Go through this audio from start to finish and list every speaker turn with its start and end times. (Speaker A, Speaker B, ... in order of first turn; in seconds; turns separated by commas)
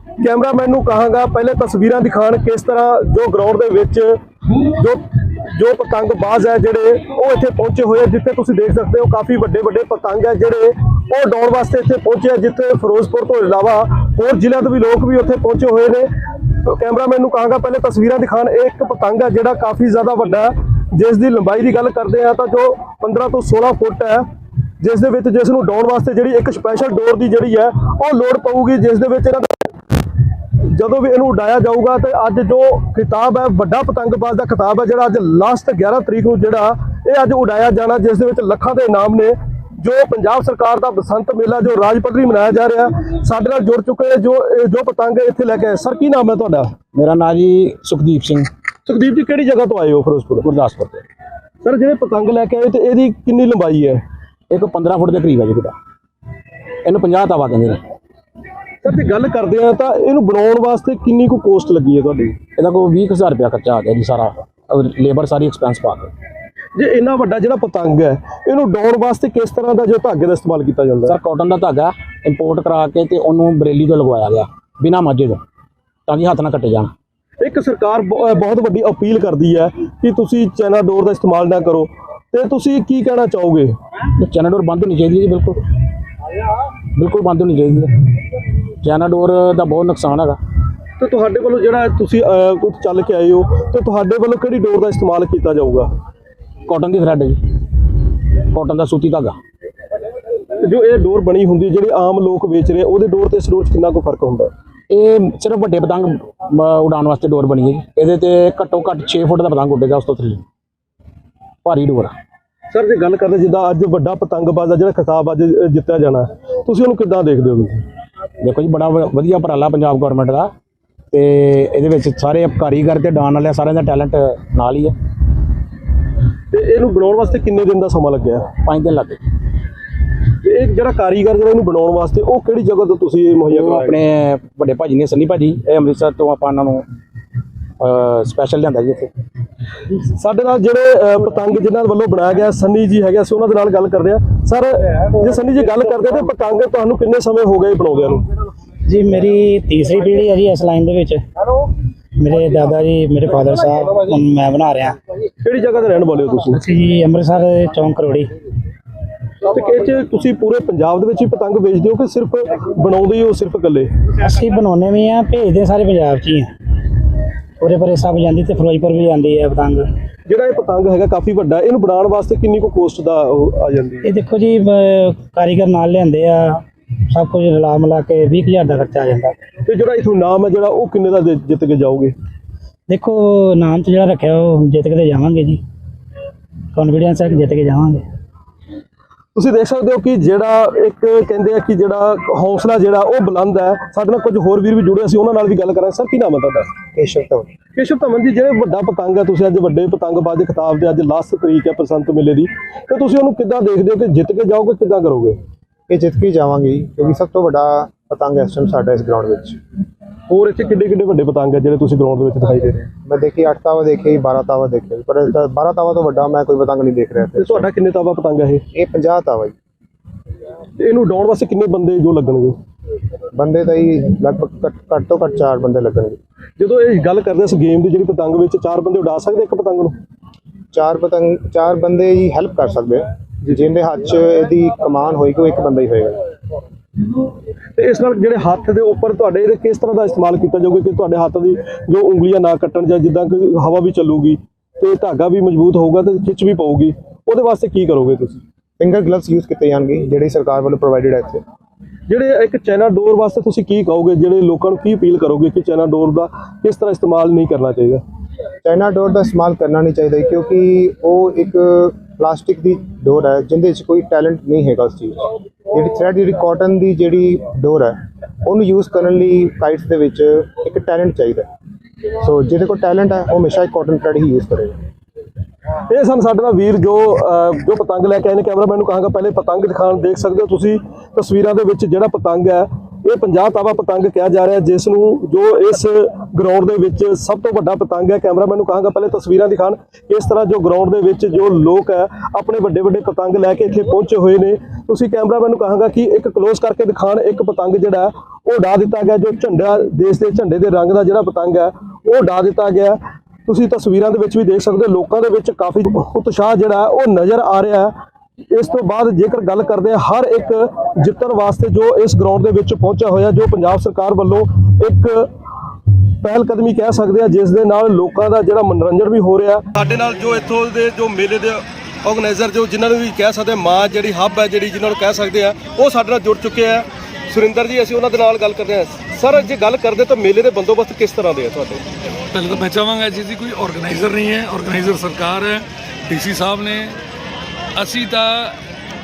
Speaker A: 0.2-4.2, Speaker A: 4.7-5.0, Speaker A: 5.5-24.2, Speaker A: 24.8-29.5, Speaker A: 30.7-46.7, Speaker B: 46.9-48.5, Speaker A: 48.9-50.5, Speaker B: 50.4-51.0, Speaker A: 51.6-54.0, Speaker B: 54.5-55.8, Speaker B: 56.8-57.8, Speaker A: 58.8-62.4, Speaker B: 62.6-66.1, Speaker A: 66.8-71.2, Speaker B: 71.1-75.4, Speaker B: 76.1-76.9, Speaker A: 77.4-83.7, Speaker B: 84.2-85.6, Speaker B: 87.0-88.1, Speaker B: 88.8-90.4, Speaker A: 91.0-95.9, Speaker B: 96.7-97.4, Speaker B: 98.5-99.4, Speaker A: 100.6-104.5, Speaker B: 104.9-110.4, Speaker B: 111.6-112.1, Speaker A: 112.7-117.8, Speaker B: 118.4-120.5, Speaker B: 121.1-124.9, Speaker A: 126.5-128.5, Speaker B: 128.6-129.2, Speaker A: 130.4-134.0, Speaker B: 133.5-136.9, Speaker B: 137.8-139.1, Speaker A: 140.1-148.3, Speaker C: 148.9-151.2, Speaker C: 152.2-155.0, Speaker A: 155.4-156.6, Speaker C: 156.5-158.3, Speaker A: 159.5-163.9, Speaker C: 164.2-166.5, Speaker C: 167.6-169.9, Speaker A: 170.2-174.1, Speaker C: 174.0-179.4, Speaker A: 179.7-182.1, Speaker C: 182.9-185.6, Speaker C: 186.7-188.1, Speaker A: 189.3-196.7, Speaker D: 196.9-197.5, Speaker A: 197.8-205.4, Speaker D: 205.9-209.6, Speaker A: 210.3-212.9, Speaker D: 212.9-217.7, Speaker A: 217.4-218.6, Speaker D: 218.7-219.6, Speaker A: 220.8-222.6, Speaker D: 223.3-226.2, Speaker A: 226.6-229.9, Speaker D: 230.7-236.2, Speaker A: 237.8-248.4, Speaker D: 248.8-251.4, Speaker A: 252.1-258.0, Speaker D: 258.6-271.5, Speaker D: 272.2-274.8, Speaker A: 275.9-307.9, Speaker A: 308.5-315.3, Speaker A: 316.2-331.8, Speaker E: 332.3-337.0, Speaker E: 337.8-338.6